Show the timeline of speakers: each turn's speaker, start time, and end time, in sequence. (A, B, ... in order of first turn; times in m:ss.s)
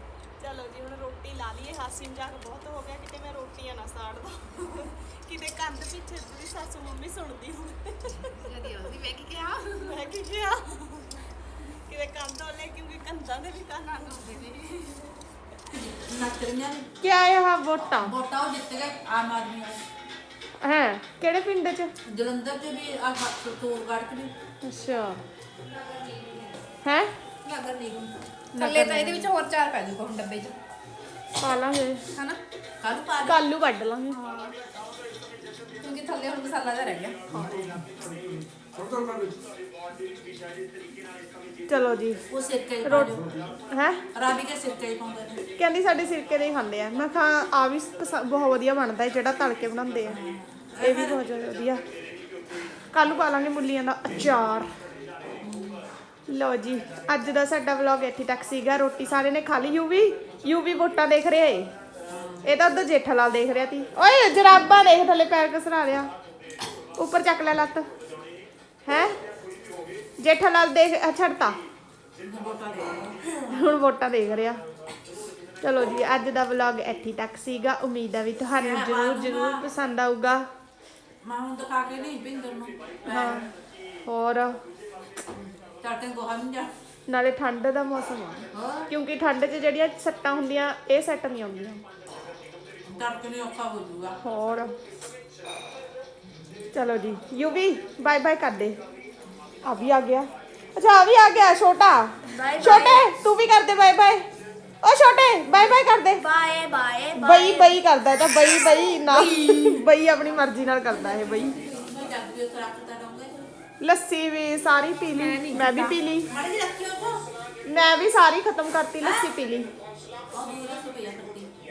0:00.4-0:08.5 A
0:08.1-0:10.1 B
0:09.8-0:14.4 A
0:13.9-0:15.1 B
0:15.7-0:16.9 C
0:17.0-0:18.1 A
0:18.0-0:19.8 C
0:20.6-0:21.9 A
0:22.1-0:24.3 C
0:24.6-0:25.2 A
0:25.6-0:26.6 B
0:26.8-0:27.1 A
0:27.4-0:30.6 B
0:28.6-0:29.3 A
0:31.4-0:32.0 A
0:32.1-0:32.4 B
0:32.8-0:33.4 C
0:33.2-0:34.5 A
0:35.8-0:37.2 B
0:37.3-0:37.8 A
0:41.7-0:42.2 A
0:42.3-0:43.4 C
0:42.8-0:44.0 A
0:44.1-0:45.4 C
0:45.6-0:50.2 A
0:50.0-0:51.2 C
0:50.8-0:51.8 A
0:52.9-0:54.7 A
0:55.4-0:55.8 C
0:56.3-1:01.7 A
1:02.1-1:02.5 C
1:02.4-1:06.1 A
1:07.0-1:07.9 A
1:08.9-1:09.1 A
1:10.2-1:11.6 A
1:12.2-1:13.7 C
1:13.5-1:14.6 A
1:15.6-1:20.5 A
1:18.6-1:19.6 C
1:21.2-1:23.4 C
1:23.0-1:23.5 A
1:24.1-1:24.6 A
1:25.3-1:26.7 C
1:27.1-1:31.8 A
1:28.5-1:28.9 C
1:32.8-1:34.2 C
1:34.2-1:34.7 A
1:36.7-1:38.8 A
1:39.6-1:44.3 A
1:42.3-1:43.0 D
1:42.6-1:43.0 C
1:44.8-1:46.2 A
1:46.2-1:47.8 D
1:47.1-1:51.6 A
1:49.1-1:49.6 B
1:49.2-1:49.6 C
1:50.9-1:53.5 C
1:53.8-1:56.3 A
1:55.2-1:56.0 B
1:56.3-1:57.2 C
1:57.6-1:59.7 A
2:00.3-2:01.5 C